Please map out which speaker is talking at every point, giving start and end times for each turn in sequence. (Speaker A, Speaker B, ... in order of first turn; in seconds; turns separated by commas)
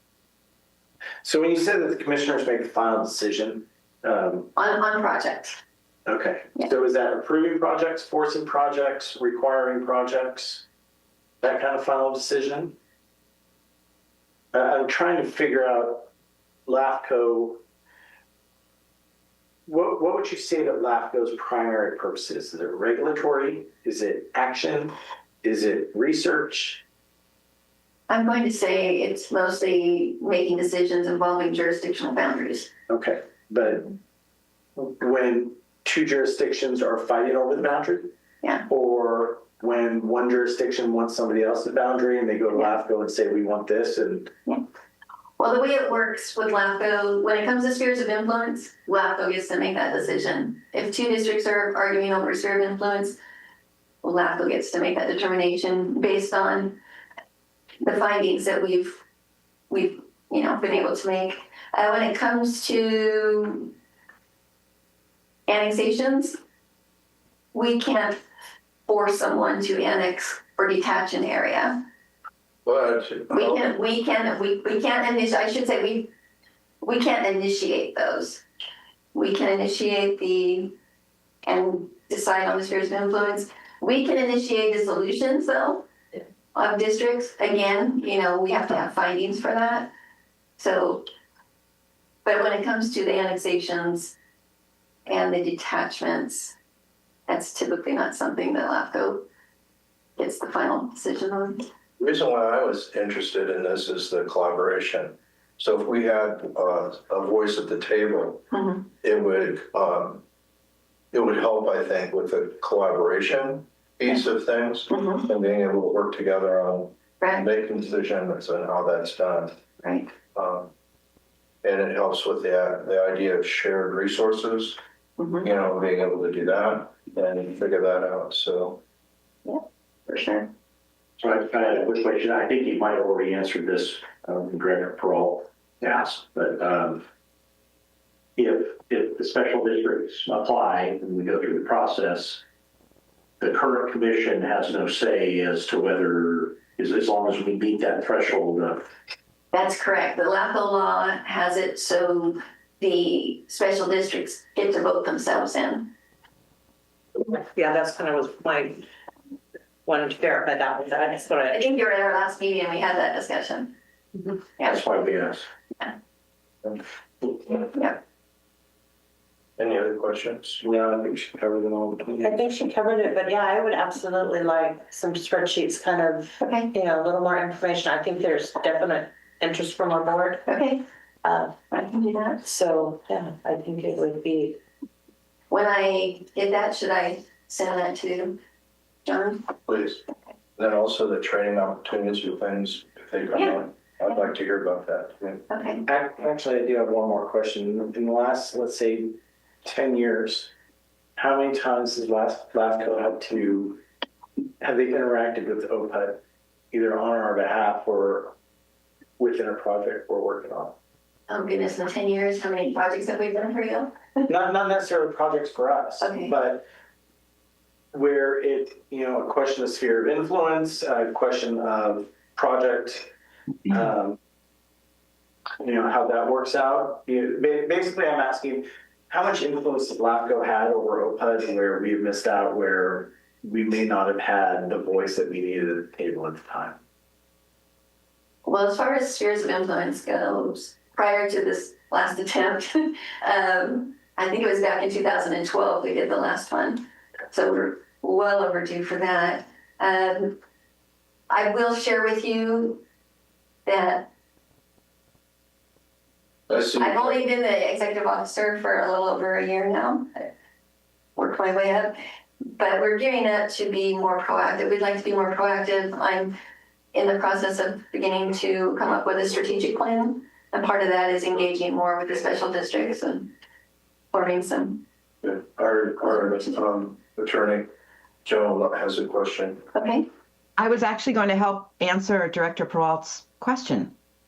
Speaker A: 1.2-4.5, Speaker B: 4.5-5.6, Speaker A: 6.0-10.7, Speaker A: 11.4-12.8, Speaker A: 14.5-16.1, Speaker A: 16.6-17.6, Speaker A: 19.7-26.8, Speaker B: 28.1-32.7, Speaker A: 32.9-33.9, Speaker A: 34.8-38.1, Speaker A: 38.7-44.3, Speaker B: 45.4-53.2, Speaker B: 54.0-56.8, Speaker B: 57.8-59.0, Speaker B: 59.7-63.7, Speaker B: 65.5-66.4, Speaker B: 67.5-68.2, Speaker B: 68.9-71.8, Speaker C: 72.6-73.6, Speaker B: 73.3-76.1, Speaker B: 76.8-78.4, Speaker B: 79.1-80.7, Speaker B: 81.4-89.9, Speaker B: 90.6-91.0, Speaker B: 92.2-94.2, Speaker B: 95.1-96.5, Speaker B: 97.3-99.2, Speaker B: 100.2-101.6, Speaker C: 102.0-108.4, Speaker B: 108.5-108.9, Speaker C: 109.0-110.2, Speaker C: 111.1-119.6, Speaker B: 114.9-115.2, Speaker B: 119.8-120.1, Speaker C: 120.3-120.7, Speaker C: 121.6-124.8, Speaker B: 125.2-125.5, Speaker C: 125.4-128.8, Speaker B: 129.4-130.5, Speaker D: 131.2-137.1, Speaker D: 138.4-142.4, Speaker D: 143.4-148.8, Speaker B: 149.5-155.9, Speaker E: 157.2-158.8, Speaker E: 159.8-161.6, Speaker B: 161.5-163.7, Speaker B: 164.6-164.8, Speaker D: 164.7-165.4, Speaker B: 167.6-168.0, Speaker C: 169.6-170.6, Speaker A: 170.6-172.4, Speaker E: 172.2-180.4, Speaker B: 176.4-176.7, Speaker B: 180.5-180.8, Speaker E: 181.2-181.6, Speaker B: 181.7-182.4, Speaker E: 182.4-184.6, Speaker B: 185.5-188.4, Speaker B: 189.1-189.5, Speaker C: 189.7-190.0, Speaker C: 190.6-195.4, Speaker B: 195.5-195.8, Speaker A: 195.8-200.5, Speaker A: 201.2-203.8, Speaker A: 204.6-208.3, Speaker A: 209.2-210.8, Speaker B: 211.3-214.2, Speaker A: 214.3-216.7, Speaker B: 216.0-216.3, Speaker A: 217.9-223.1, Speaker A: 223.7-224.2, Speaker A: 225.6-236.8, Speaker B: 238.4-250.4, Speaker B: 251.3-252.8, Speaker B: 253.7-254.1, Speaker C: 256.5-257.2, Speaker B: 256.7-260.3, Speaker B: 261.1-261.9, Speaker B: 262.6-266.3, Speaker B: 266.9-273.3, Speaker B: 274.1-274.8, Speaker C: 275.2-277.7, Speaker B: 276.0-276.6, Speaker C: 278.2-279.6, Speaker B: 279.7-280.1, Speaker F: 280.6-283.9